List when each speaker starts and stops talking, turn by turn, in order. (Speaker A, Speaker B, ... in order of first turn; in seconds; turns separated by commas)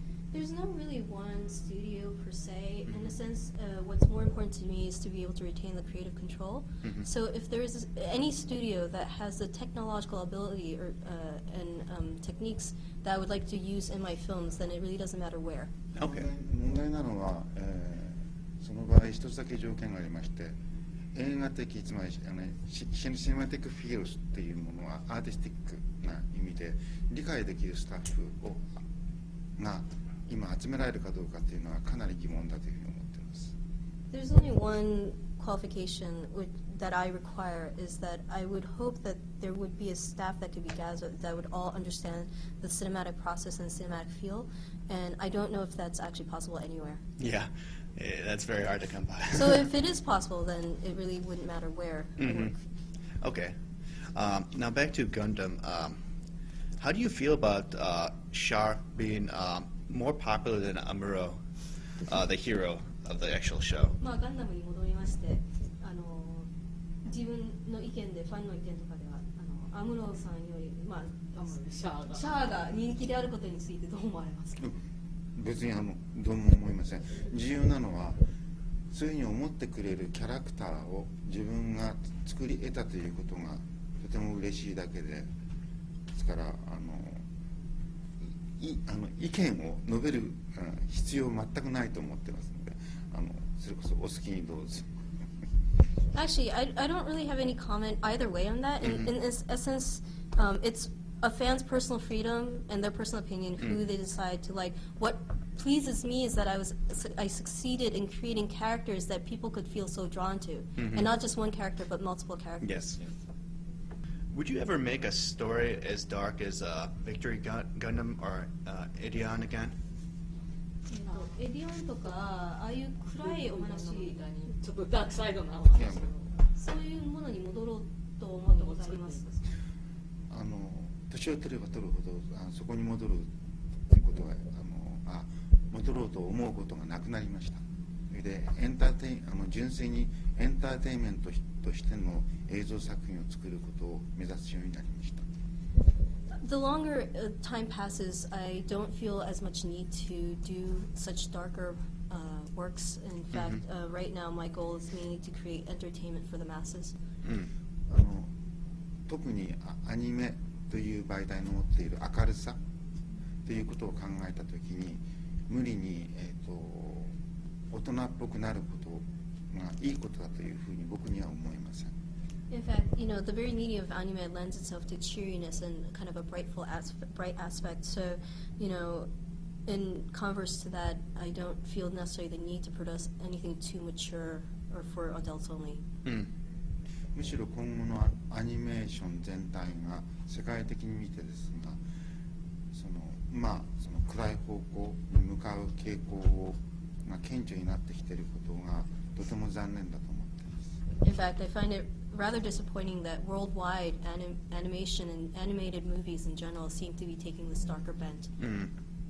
Speaker A: 0.3-15.7, Speaker B: 6.8-7.1, Speaker C: 15.9-20.5, Speaker B: 16.0-16.3, Speaker C: 21.1-28.8, Speaker C: 29.6-33.5, Speaker A: 34.1-47.0, Speaker B: 47.2-49.7, Speaker A: 49.3-52.6, Speaker B: 52.2-52.5, Speaker B: 53.2-53.5, Speaker B: 54.1-56.0, Speaker B: 56.8-61.4, Speaker B: 62.0-64.0, Speaker A: 64.0-66.5, Speaker A: 67.0-71.3, Speaker D: 71.3-72.3, Speaker A: 72.1-74.7, Speaker C: 75.3-78.2, Speaker C: 78.9-85.3, Speaker C: 86.1-87.2, Speaker C: 88.5-94.8, Speaker A: 96.1-112.8, Speaker B: 98.8-99.1, Speaker B: 110.8-111.0, Speaker B: 112.6-113.0, Speaker B: 114.3-119.7, Speaker A: 120.9-124.2, Speaker D: 121.0-121.3, Speaker D: 123.2-126.3, Speaker C: 125.7-126.1, Speaker A: 126.5-129.5, Speaker D: 128.5-129.2, Speaker C: 130.3-133.3, Speaker C: 133.9-145.2, Speaker A: 146.4-156.9, Speaker B: 153.3-153.6, Speaker B: 157.2-157.5, Speaker C: 157.9-158.3, Speaker C: 159.1-162.6, Speaker C: 163.4-167.1, Speaker C: 167.7-171.9, Speaker A: 172.5-179.1, Speaker A: 179.7-185.8, Speaker C: 187.1-191.8, Speaker C: 192.7-200.6, Speaker A: 201.0-208.3, Speaker B: 208.4-208.7